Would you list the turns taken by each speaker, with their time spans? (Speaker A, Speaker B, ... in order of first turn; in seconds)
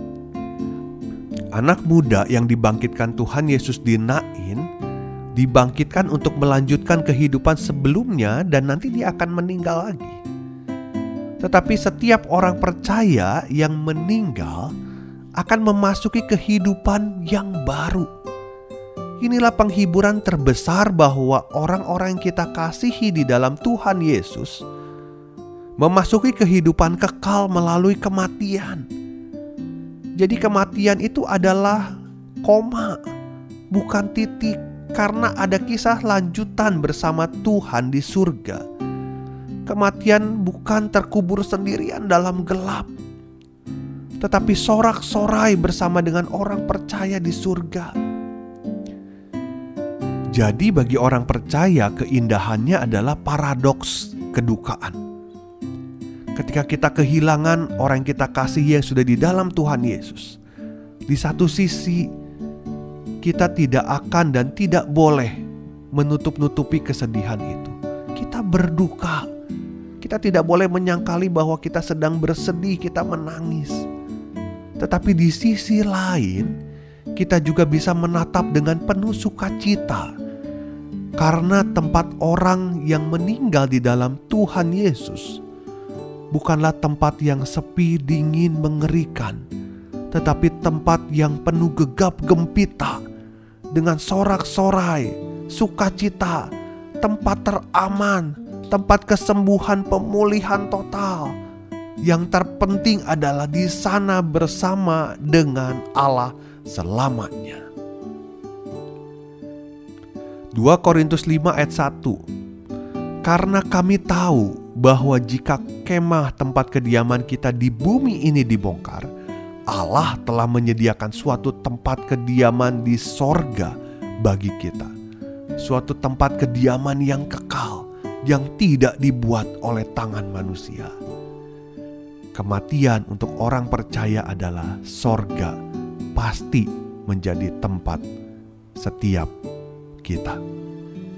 Speaker A: 1.5-4.7, 5.3-10.2, 11.4-14.7, 15.4-18.1, 19.2-24.6, 25.8-28.9, 30.2-31.9, 32.4-33.0, 33.7-38.6, 39.6-42.9, 44.2-47.9, 50.3-55.0, 56.4-60.4, 61.1-62.1, 63.2-65.4, 65.9-69.2, 70.0-73.8, 74.8-76.5, 77.2-80.1, 81.2-85.4, 86.3-89.4, 90.1-93.0, 93.7-96.5, 97.0-101.3, 102.0-107.6, 110.5-112.2, 113.2-119.1, 119.7-124.9, 125.6-130.9, 132.3-135.5, 136.1-138.0, 138.8-139.3, 140.0-140.4